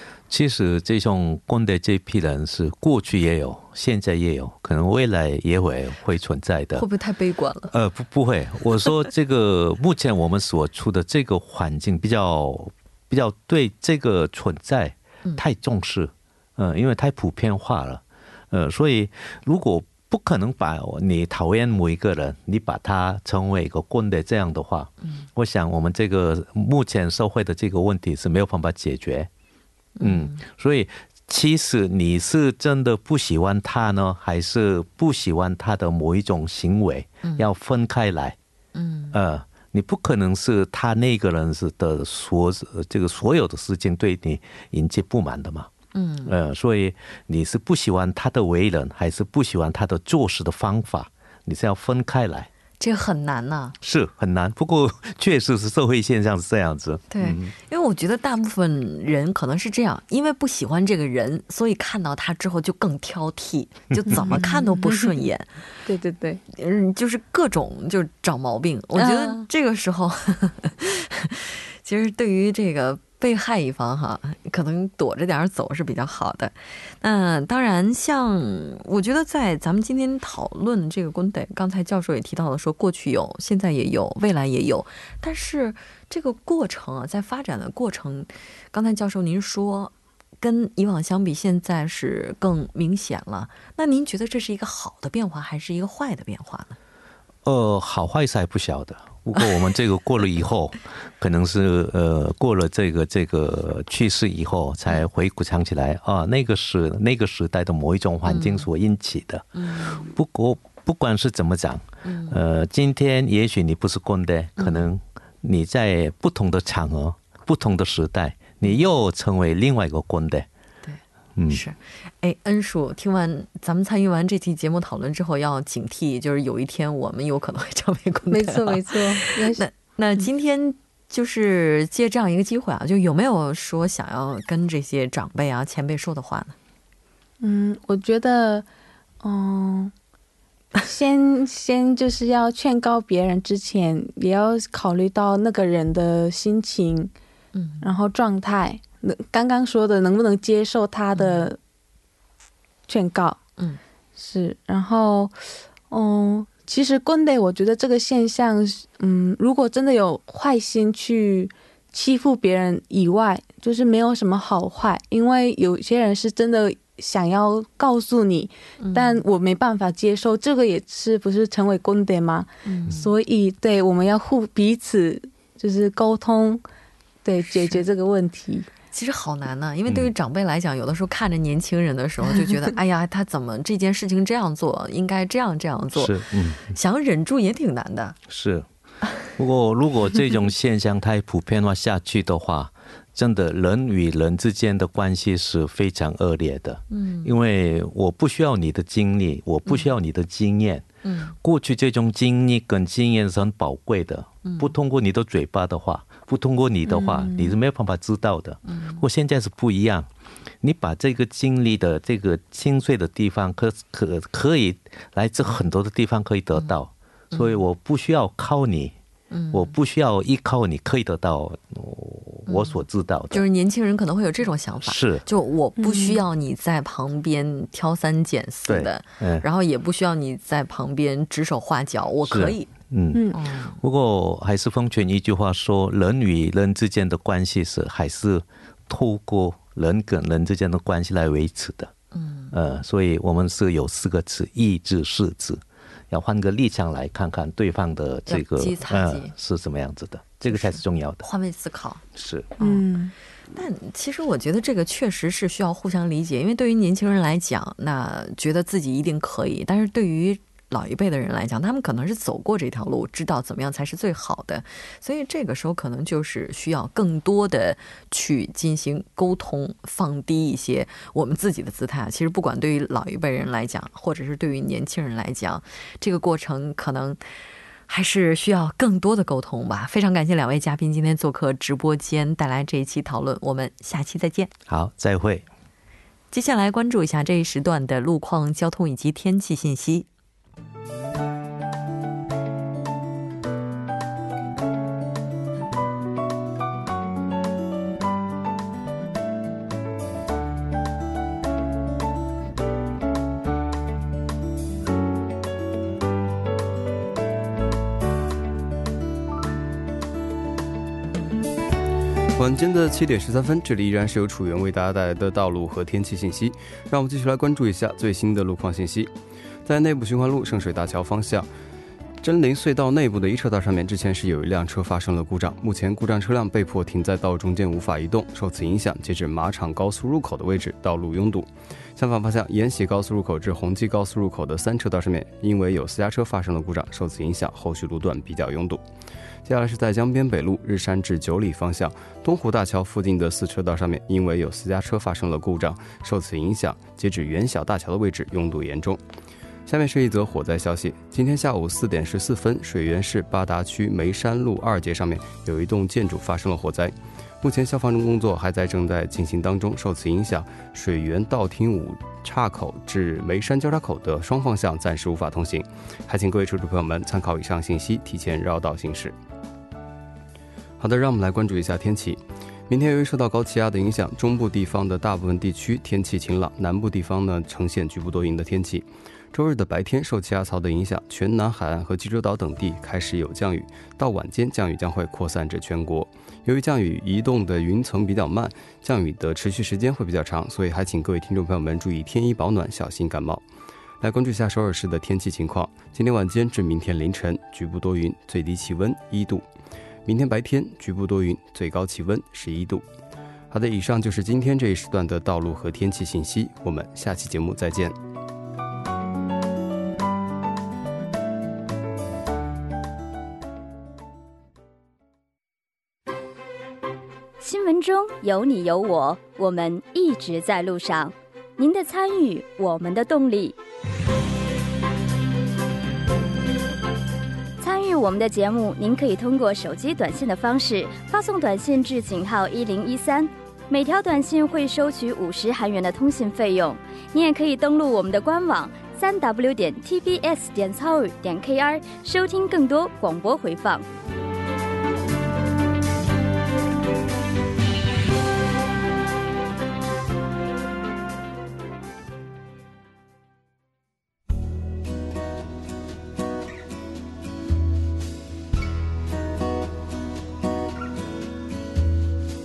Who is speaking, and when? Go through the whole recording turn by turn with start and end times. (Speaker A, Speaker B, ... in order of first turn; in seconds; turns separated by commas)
Speaker A: 0.3-6.8, Speaker B: 6.8-7.7, Speaker A: 7.7-29.3, Speaker B: 29.9-30.4, Speaker A: 30.0-38.4, Speaker B: 37.2-37.5, Speaker B: 38.7-39.2, Speaker A: 39.1-45.7, Speaker B: 45.9-46.3, Speaker A: 46.2-52.5, Speaker B: 52.8-53.8, Speaker A: 53.8-57.5, Speaker B: 57.1-65.5, Speaker C: 64.3-65.2, Speaker C: 65.8-66.4, Speaker B: 66.5-96.8, Speaker C: 69.0-69.4, Speaker A: 97.4-120.5, Speaker B: 108.2-108.7, Speaker B: 109.5-110.1, Speaker B: 112.0-112.4, Speaker B: 114.6-114.9, Speaker B: 120.8-136.6, Speaker A: 121.3-121.6, Speaker C: 128.3-129.6, Speaker C: 137.4-138.7, Speaker C: 139.2-139.9, Speaker C: 140.8-147.1, Speaker B: 147.5-147.9, Speaker C: 147.8-151.6, Speaker B: 151.1-151.5, Speaker C: 152.9-153.4, Speaker C: 154.2-155.3, Speaker C: 155.9-176.6, Speaker B: 168.8-169.2, Speaker B: 172.6-173.1, Speaker C: 177.2-178.7, Speaker B: 177.4-177.8, Speaker B: 178.9-188.2, Speaker A: 179.9-180.1, Speaker A: 185.9-186.7, Speaker A: 188.3-188.7, Speaker A: 189.3-200.9, Speaker B: 196.9-197.3, Speaker B: 199.7-199.9, Speaker B: 201.0-201.3, Speaker A: 201.4-210.1, Speaker B: 204.4-204.7, Speaker C: 206.9-207.6, Speaker B: 208.7-209.0, Speaker A: 210.6-218.9, Speaker B: 217.3-217.6, Speaker B: 219.3-219.7, Speaker A: 219.5-223.4, Speaker B: 222.5-232.7, Speaker A: 224.8-225.2, Speaker C: 225.8-226.2, Speaker A: 228.7-229.4, Speaker A: 232.2-241.9, Speaker B: 233.3-233.8, Speaker B: 242.1-242.5, Speaker A: 242.5-251.2, Speaker B: 248.3-249.3, Speaker B: 250.4-252.0, Speaker A: 252.1-252.5, Speaker B: 252.6-252.8, Speaker C: 252.6-253.1, Speaker B: 253.5-277.2, Speaker B: 277.9-284.5, Speaker A: 284.7-285.5, Speaker B: 286.3-290.1, Speaker D: 312.4-319.1, Speaker D: 319.6-321.5, Speaker D: 322.2-338.8, Speaker D: 339.4-349.0, Speaker D: 349.6-369.1, Speaker D: 370.8-393.4, Speaker D: 394.0-399.5, Speaker D: 400.1-402.8, Speaker D: 403.5-407.9, Speaker E: 417.4-423.6, Speaker E: 427.6-443.8